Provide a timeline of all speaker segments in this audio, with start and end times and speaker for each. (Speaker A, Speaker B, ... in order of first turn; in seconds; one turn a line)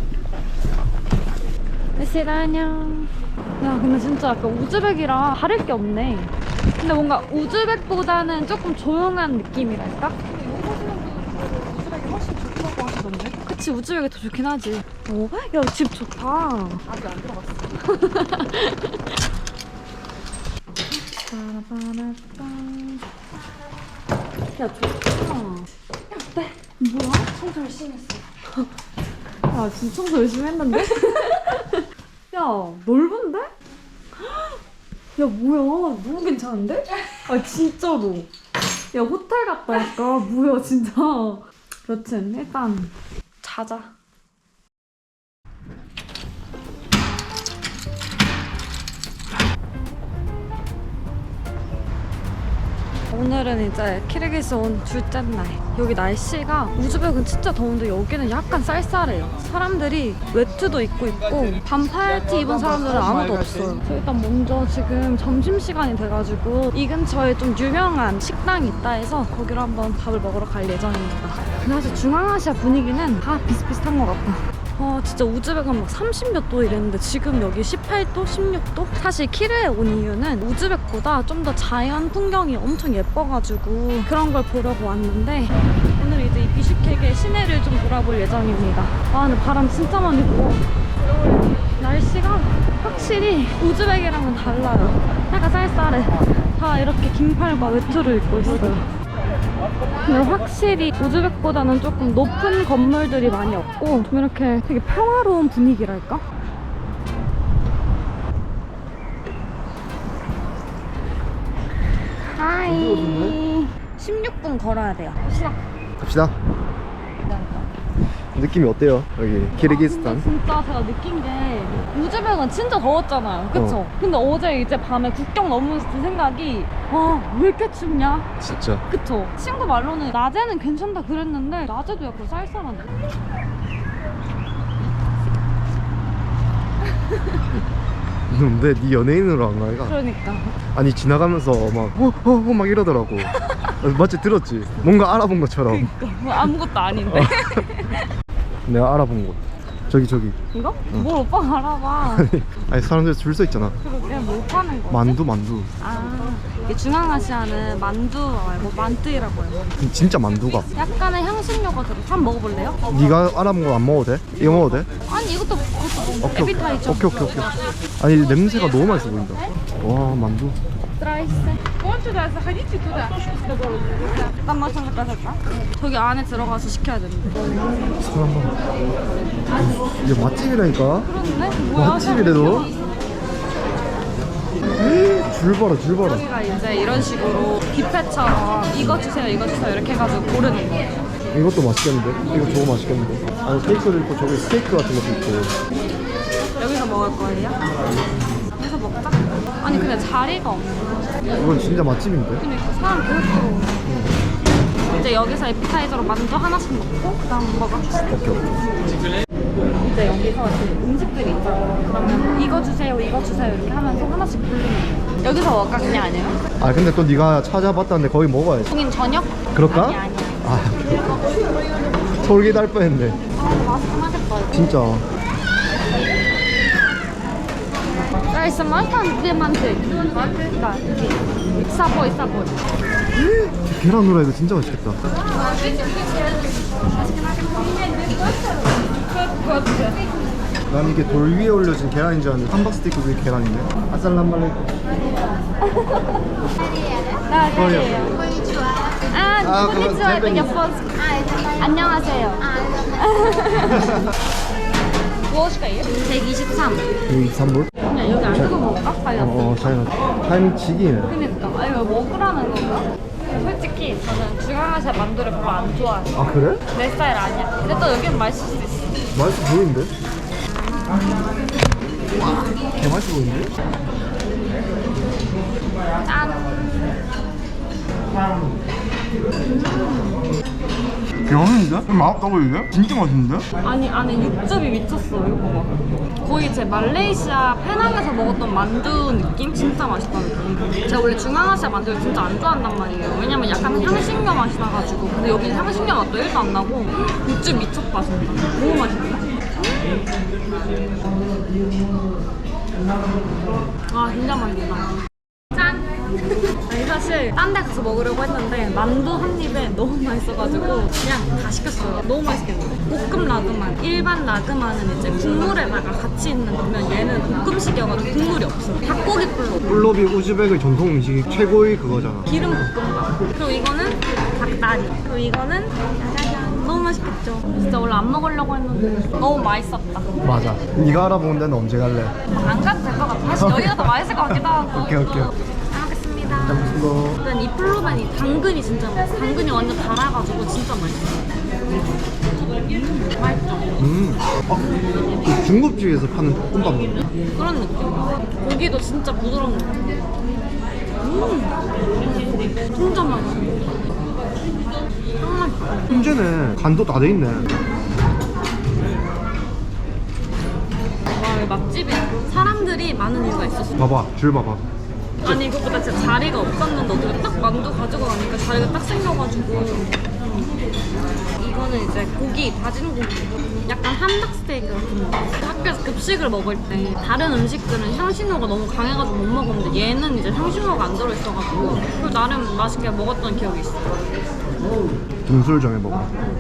Speaker A: 2.0-19.0
Speaker B: 10.4-13.1
Speaker B: 16.9-17.6
Speaker A: 21.2-23.1
Speaker A: 24.5-28.7
Speaker A: 29.5-33.5
Speaker A: 35.1-38.3
Speaker A: 38.9-43.9
Speaker A: 53.1-90.6
Speaker A: 91.8-98.9
Speaker A: 100.0-106.2
Speaker A: 112.3-115.6
Speaker C: 112.7-113.4
Speaker C: 116.0-116.3
Speaker A: 117.2-117.7
Speaker C: 118.3-120.3
Speaker A: 119.5-128.3
Speaker C: 123.5-123.8
Speaker C: 128.4-128.8
Speaker A: 128.9-132.9
Speaker C: 138.3-139.9
Speaker A: 139.9-140.6
Speaker C: 140.7-145.9
Speaker A: 143.4-143.7
Speaker A: 145.7-148.1
Speaker C: 146.9-147.7
Speaker C: 148.7-150.4
Speaker A: 150.5-152.3
Speaker C: 152.0-153.8
Speaker A: 153.8-155.2
Speaker C: 154.9-155.7
Speaker A: 155.8-159.7
Speaker C: 159.8-160.7
Speaker A: 160.8-162.8
Speaker C: 162.9-164.9
Speaker A: 165.0-167.3
Speaker C: 166.2-170.6
Speaker A: 171.0-171.8
Speaker B: 172.1-172.8
Speaker A: 173.8-177.4
Speaker C: 177.5-178.6
Speaker C: 179.5-181.1
Speaker A: 181.0-182.8
Speaker C: 181.7-182.7
Speaker C: 184.8-186.2
Speaker A: 186.0-191.0
Speaker C: 188.8-189.0
Speaker C: 191.3-195.5
Speaker A: 196.6-197.6
Speaker A: 198.6-201.1
Speaker C: 201.3-202.4
Speaker A: 202.4-203.8
Speaker C: 203.8-204.2
Speaker A: 204.9-208.1
Speaker C: 208.1-208.6
Speaker A: 209.8-216.4
Speaker C: 216.6-218.7
Speaker A: 218.7-220.5
Speaker C: 219.5-221.2
Speaker C: 222.2-223.2
Speaker A: 223.3-224.7
Speaker C: 224.5-225.1
Speaker A: 228.3-232.6
Speaker C: 233.1-235.0
Speaker A: 235.1-240.0
Speaker C: 240.7-244.6
Speaker A: 245.7-246.2
Speaker A: 247.3-248.3
Speaker C: 247.5-248.1
Speaker A: 249.1-250.9
Speaker C: 249.4-250.5
Speaker A: 251.6-254.0
Speaker C: 253.7-253.9
Speaker A: 255.3-256.9
Speaker C: 257.1-257.7
Speaker A: 257.9-259.8
Speaker C: 258.3-258.6
Speaker C: 259.2-261.1
Speaker A: 261.1-266.2
Speaker C: 266.1-266.6
Speaker A: 266.7-269.0
Speaker C: 269.1-269.9
Speaker A: 270.5-271.3
Speaker C: 272.2-273.5
Speaker A: 276.0-276.6
Speaker A: 279.4-280.3
Speaker C: 281.3-283.5
Speaker A: 283.6-299.9
Speaker A: 303.9-305.0
Speaker A: 305.6-305.9
Speaker A: 306.5-319.7
Speaker C: 319.7-322.3
Speaker A: 322.3-330.1
Speaker C: 330.2-332.2
Speaker A: 332.3-341.3
Speaker C: 333.4-335.3
Speaker C: 336.4-337.2
Speaker A: 342.6-343.7
Speaker C: 343.8-347.1
Speaker A: 347.4-350.2
Speaker A: 351.0-353.6
Speaker A: 355.2-356.2
Speaker C: 355.9-357.5
Speaker A: 361.1-363.8
Speaker C: 363.8-364.6
Speaker A: 365.2-370.2
Speaker A: 371.4-384.0
Speaker C: 385.3-386.2